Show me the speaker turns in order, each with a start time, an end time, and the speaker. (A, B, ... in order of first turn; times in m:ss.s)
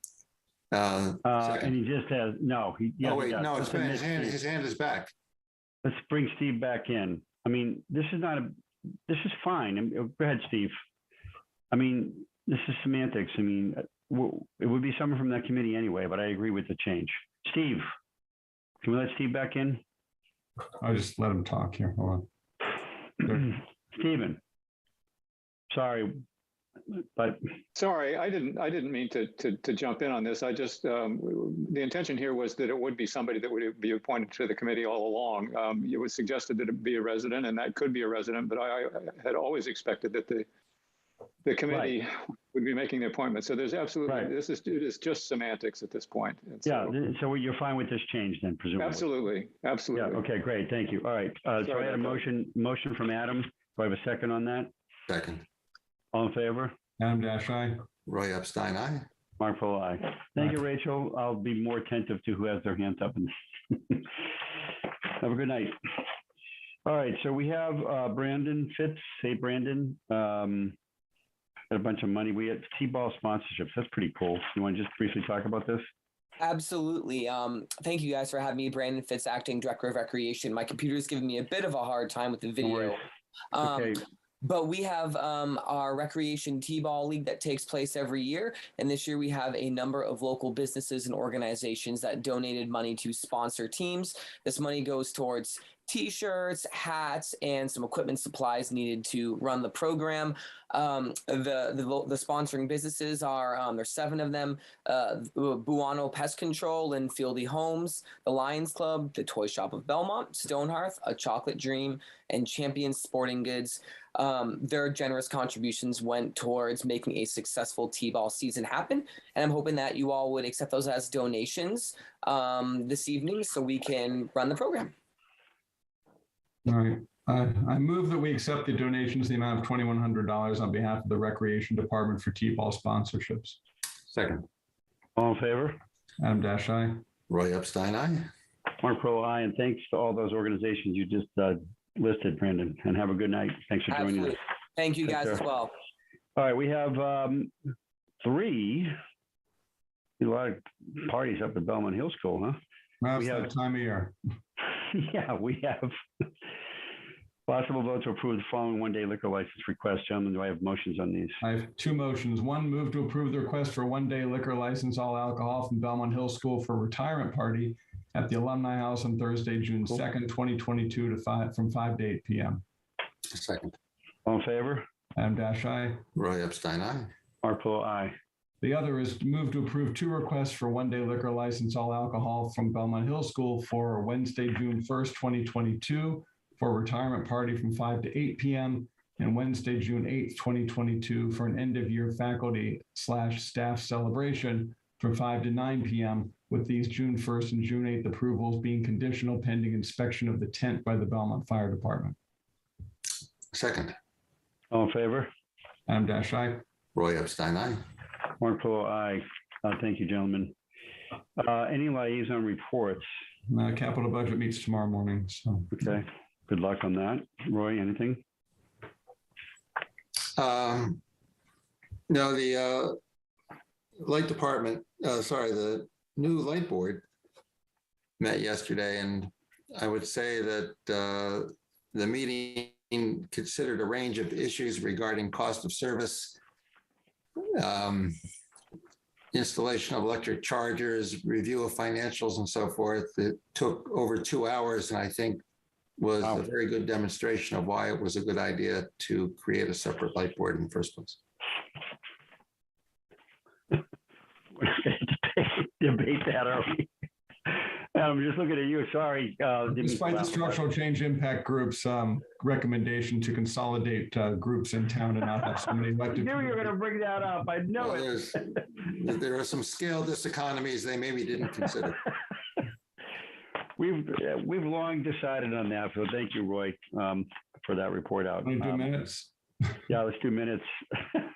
0:00.7-0:01.7 A
0:01.2-0:04.4 B
0:03.0-0:05.1 A
0:05.8-0:08.5 B
0:09.1-0:10.7 B
0:11.7-0:17.8 B
0:18.8-0:19.8 B
0:20.8-0:22.3 C
0:23.3-0:24.4 B
0:25.7-0:26.2 B
0:27.7-0:40.4 D
0:41.4-0:46.9 D
0:41.7-0:41.9 B
0:44.0-0:44.3 B
0:46.6-0:49.1 B
0:48.8-0:50.2 D
0:49.9-0:54.7 B
0:51.6-0:52.2 D
0:55.1-0:55.4 A
0:56.1-0:56.7 B
0:57.0-0:57.8 C
0:58.1-0:59.1 A
0:59.4-1:04.2 B
1:05.2-1:05.7 B
1:06.8-1:10.8 B
1:11.7-1:15.8 B
1:16.4-1:23.0 E
1:22.6-1:23.0 B
1:23.5-2:04.9 E
1:23.6-1:24.0 B
2:06.6-2:13.6 C
2:14.1-2:14.4 A
2:15.2-2:15.8 B
2:16.2-2:17.0 C
2:17.3-2:18.3 A
2:18.8-2:24.4 B
2:23.9-2:25.7 E
2:25.0-2:25.4 B
2:26.4-2:27.5 B
2:28.2-2:28.9 B
2:30.2-2:32.6 B
2:33.0-2:34.2 C
2:33.2-2:33.5 B
2:34.9-2:35.9 B
2:37.5-2:41.4 B
2:41.4-2:52.6 C
2:53.3-2:53.7 A
2:54.2-2:54.8 B
2:55.2-2:56.0 C
2:56.1-2:57.1 A
2:57.4-2:58.1 B
2:58.6-3:22.2 C
3:23.5-3:24.0 A
3:24.7-3:25.3 B
3:25.9-3:26.6 C
3:26.9-3:27.8 A
3:28.4-3:30.5 B
3:31.4-3:33.1 B
3:33.5-3:35.8 C
3:35.7-3:38.2 B
3:40.4-3:41.0 A
3:42.1-3:43.0 A
3:44.0-3:47.0 A
3:48.2-3:56.4 A
3:57.5-3:58.1 A
3:59.3-4:05.4 A
4:06.0-4:11.2 A
4:14.5-4:16.9 B
4:17.5-4:20.6 B
4:19.8-4:26.7 C
4:26.1-4:28.6 B
4:27.8-4:32.0 A
4:33.8-4:39.0 B
4:38.4-4:39.3 C
4:39.9-4:41.2 B